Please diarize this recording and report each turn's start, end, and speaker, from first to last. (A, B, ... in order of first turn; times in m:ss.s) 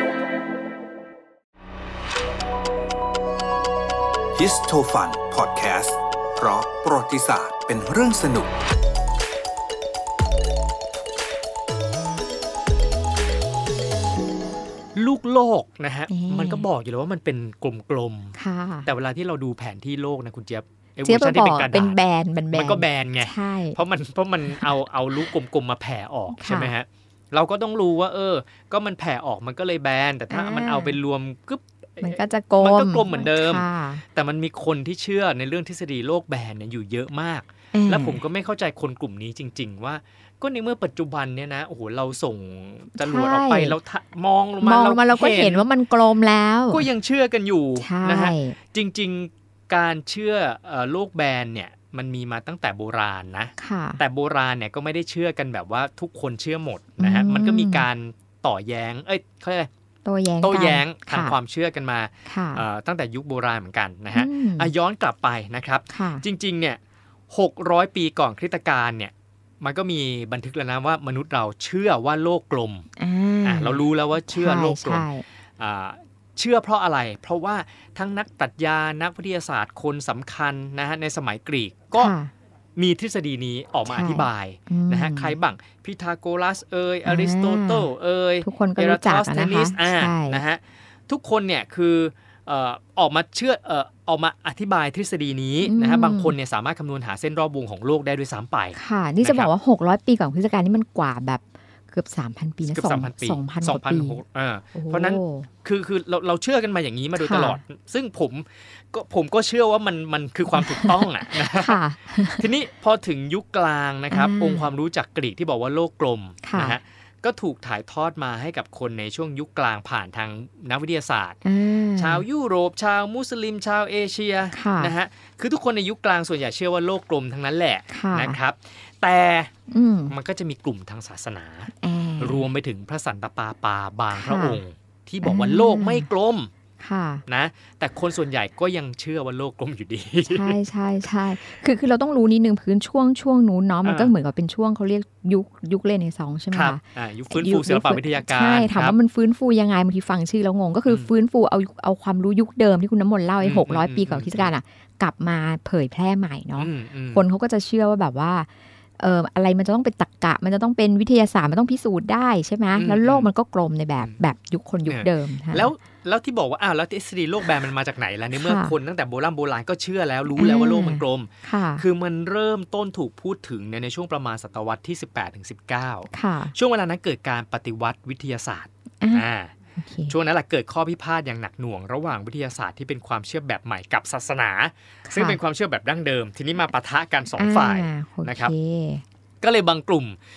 0:04.3-0:08.5 A
0:15.0-0:22.0 B
0:16.1-0:16.7 C
0:18.4-0:18.9 C
0:21.0-0:23.8 C
0:22.5-0:45.7 B
0:26.3-0:26.7 C
0:30.3-0:31.0 C
0:32.0-0:34.0 C
0:37.7-0:38.2 C
0:43.0-0:43.8 C
0:44.6-0:46.9 C
0:46.7-0:59.7 B
0:47.8-0:48.6 C
0:53.6-0:54.0 C
0:57.0-0:57.9 C
1:00.0-1:01.4 C
1:00.4-1:06.8 B
1:02.3-1:02.6 C
1:04.1-1:04.7 C
1:05.9-1:06.2 C
1:07.3-1:12.8 B
1:13.0-1:15.2 C
1:13.4-1:22.1 B
1:22.0-1:22.3 C
1:22.8-1:39.5 B
1:23.9-1:25.4 C
1:27.0-1:27.9 C
1:28.4-1:30.4 C
1:35.6-1:36.4 C
1:38.8-1:44.2 C
1:42.6-1:51.8 B
1:44.8-1:45.5 C
1:47.2-1:47.6 C
1:50.6-1:52.5 C
1:52.3-2:01.4 B
1:54.1-1:54.7 C
1:56.4-1:56.8 C
2:01.4-2:02.2 C
2:02.0-2:09.5 B
2:04.5-2:04.9 C
2:07.9-2:08.4 C
2:09.7-2:10.2 C
2:10.1-2:16.5 B
2:11.8-2:12.4 C
2:14.1-2:14.6 C
2:15.2-2:16.1 C
2:16.8-2:17.2 C
2:17.3-2:20.6 B
2:20.2-2:45.7 C
2:23.8-2:24.1 B
2:26.5-2:29.0 B
2:33.4-2:34.5 B
2:36.6-2:37.2 B
2:42.8-2:43.3 B
2:44.9-2:59.5 B
2:48.3-2:48.8 C
2:50.3-2:51.8 C
2:56.1-2:56.5 C
2:59.0-3:00.2 C
3:00.1-3:08.5 B
3:05.1-3:05.4 C
3:07.4-3:09.0 C
3:09.4-3:10.2 B